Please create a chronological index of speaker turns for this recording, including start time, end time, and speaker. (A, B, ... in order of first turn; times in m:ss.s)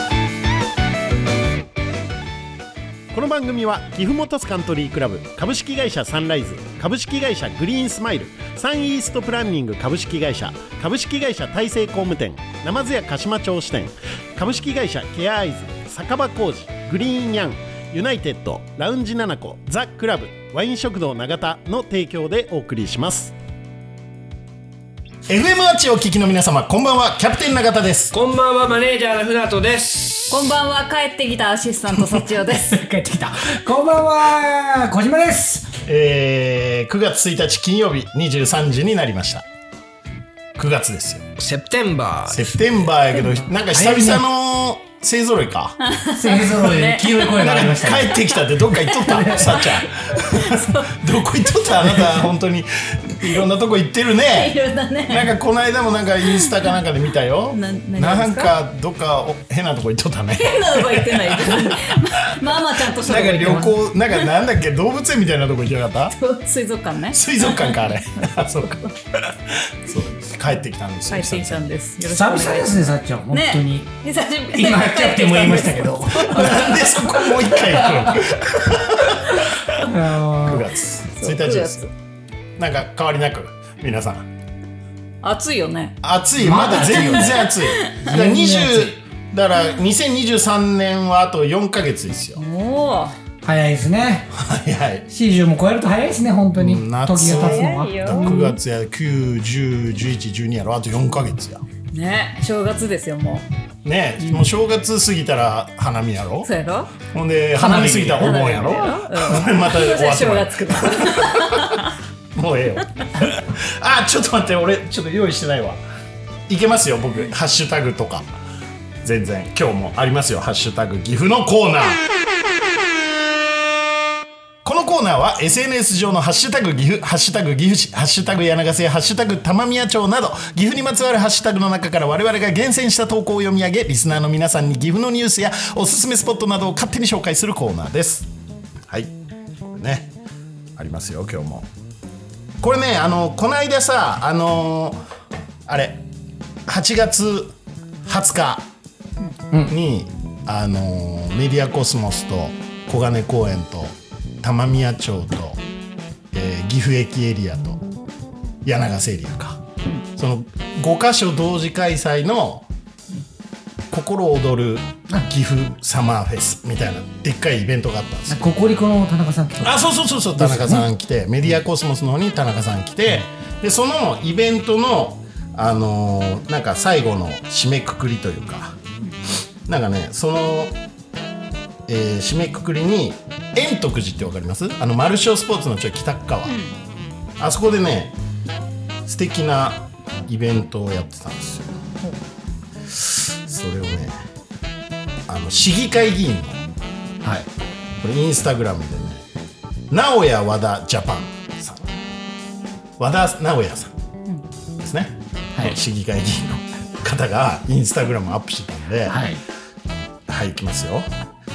0:03.1-0:23.3 A
0:25.3-0:28.1 B
0:28.1-0:30.6 C
0:30.3-0:32.8 D
0:32.5-0:35.7 E
0:35.9-0:39.4 B
0:40.6-0:41.2 B
0:41.4-0:42.8 C
0:42.3-0:45.8 B
0:43.7-0:44.2 E
0:45.8-0:47.6 D
0:46.2-0:48.2 E
0:47.4-1:02.1 B
0:48.7-0:51.0 D
0:54.3-0:55.3 D
0:56.3-0:56.6 D
0:57.5-0:58.5 D
1:00.4-1:04.2 D
1:02.8-1:06.2 B
1:06.2-1:08.9 D
1:07.1-1:11.8 B
1:11.1-1:16.7 D
1:12.0-1:13.9 E
1:14.5-1:18.3 E
1:16.3-1:19.7 B
1:19.8-1:20.7 E
1:20.4-1:21.8 B
1:21.1-1:21.9 D
1:22.6-1:24.3 B
1:25.2-1:26.0 D
1:26.0-1:32.4 B
1:26.4-1:27.5 E
1:27.3-1:28.0 D
1:28.0-1:29.0 E
1:32.4-1:33.2 D
1:33.4-1:34.3 E
1:34.3-1:35.1 B
1:35.1-1:38.5 E
1:36.6-1:41.6 B
1:37.3-1:38.5 D
1:41.9-1:43.4 D
1:43.8-1:46.5 B
1:44.2-1:44.5 D
1:46.4-1:47.0 D
1:47.1-1:51.8 B
1:47.6-1:48.6 E
1:47.6-1:51.9 D
1:52.4-1:55.8 B
1:56.5-1:58.3 B
1:59.0-2:02.0 B
2:04.6-2:18.3 B
2:19.7-2:20.1 B
2:20.8-2:21.7 B
2:22.6-2:25.0 B
2:25.7-2:26.0 B
2:26.7-2:27.6 B
2:28.1-2:28.7 B
2:29.7-2:35.6 B
2:36.3-2:37.8 B
2:38.6-2:39.6 B
2:40.2-2:42.7 B
2:43.9-2:48.5 B
2:48.3-2:49.8 E
2:49.6-2:58.8 B
2:50.4-2:50.9 E
2:59.7-3:00.8 B
3:01.9-3:06.6 B
3:06.5-3:06.7 D
3:07.4-3:08.2 B
3:09.1-3:11.7 B
3:12.9-3:14.2 B
3:15.3-3:16.6 B
3:18.0-3:19.2 B
3:19.9-3:21.9 B
3:23.0-3:23.9 B
3:24.8-3:29.2 B
3:29.1-3:29.4 E
3:30.3-3:31.1 B